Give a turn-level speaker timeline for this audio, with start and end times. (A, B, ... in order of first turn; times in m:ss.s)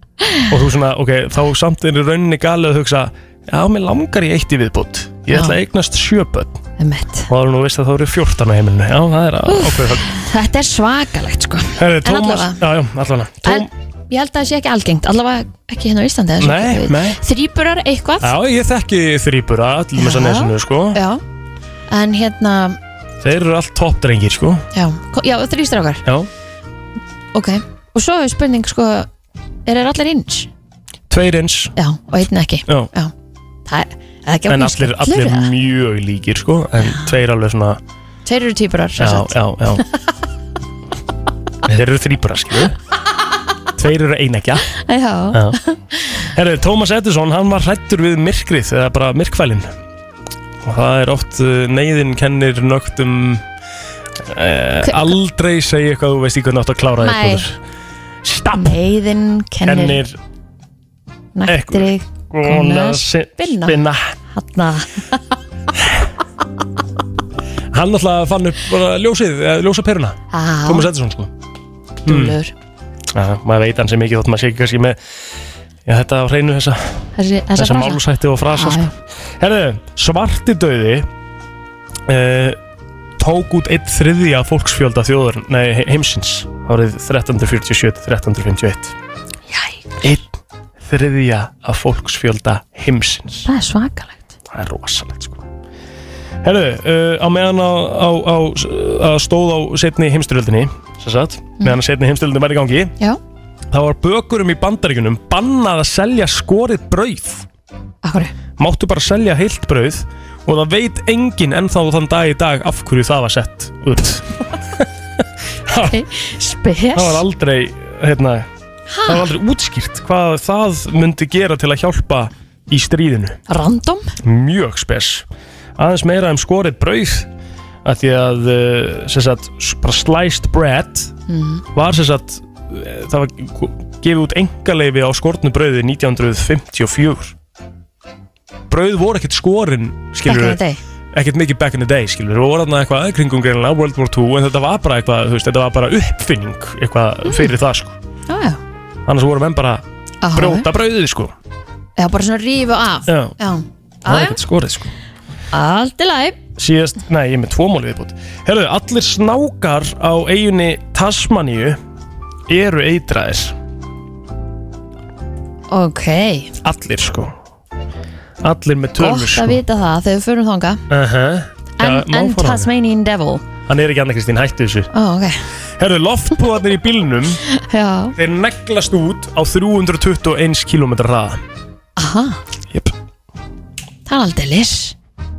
0:00.5-0:06.6 A
0:05.3-0:05.6 B
0:06.8-0:07.3 B
0:07.3-0:10.0 A
0:09.5-0:12.6 B
0:11.8-0:13.7 A
0:13.4-0:18.3 B
0:16.4-0:17.2 A
0:18.2-0:21.0 A
0:20.0-0:21.2 B
0:21.9-0:22.8 B
0:23.2-0:24.7 A
0:24.7-0:26.0 B
0:27.3-0:29.1 B
0:29.6-0:30.5 B
0:31.1-0:31.7 A
0:31.8-0:33.1 B
0:33.7-0:35.5 B
0:34.5-0:37.8 A
0:38.2-0:39.4 B
0:39.0-0:39.8 A
0:41.6-0:42.8 A
0:43.7-0:44.7 A
0:44.8-0:46.0 B
0:45.3-0:45.6 A
0:46.2-0:49.7 A
0:50.6-0:53.4 A
0:54.2-0:57.6 A
0:54.8-0:55.1 B
0:57.0-0:57.4 B
0:58.2-0:58.8 A
0:58.5-1:00.0 B
0:59.6-1:00.2 A
1:01.3-1:03.8 B
1:01.5-1:04.1 A
1:04.3-1:05.2 B
1:05.8-1:06.0 A
1:07.7-1:11.3 A
1:10.3-1:10.9 B
1:12.0-1:12.4 A
1:12.0-1:12.5 B
1:13.1-1:15.0 A
1:15.8-1:21.1 A
1:17.2-1:18.0 B
1:18.5-1:18.9 B
1:22.1-1:22.6 A
1:23.2-1:28.9 A
1:29.5-1:30.1 B
1:30.0-1:33.5 A
1:33.4-1:34.2 B
1:34.5-1:35.4 A
1:36.4-1:42.9 A
1:43.7-1:47.4 A
1:48.0-1:48.3 B
1:48.6-1:56.0 A
1:55.9-1:57.2 B
1:56.9-1:58.5 A
1:58.9-1:59.2 B
1:59.0-2:03.4 A
2:03.5-2:04.1 B
2:04.2-2:05.2 A
2:05.8-2:07.3 A
2:07.8-2:11.1 A
2:11.3-2:11.6 B
2:11.7-2:17.3 A
2:18.7-2:20.6 A
2:20.2-2:20.8 B
2:21.1-2:28.0 A
2:27.3-2:27.5 B
2:28.3-2:28.6 B
2:29.0-2:31.3 A
2:30.2-2:30.7 B
2:32.0-2:34.4 B
2:33.1-2:33.3 A
2:34.0-2:34.9 A
2:35.5-2:36.4 B
2:36.6-2:41.8 A
2:42.5-2:43.6 A
2:45.7-2:46.5 B
2:46.6-2:47.3 A
2:48.4-2:49.6 A
2:49.0-2:50.8 B
2:50.9-2:52.7 A
2:51.8-2:53.4 B
2:53.7-2:54.9 A
2:54.9-2:55.4 B
2:55.8-2:57.4 A
2:57.5-2:58.1 B
2:58.1-3:01.4 A
3:02.0-3:02.4 B
3:04.1-3:04.9 B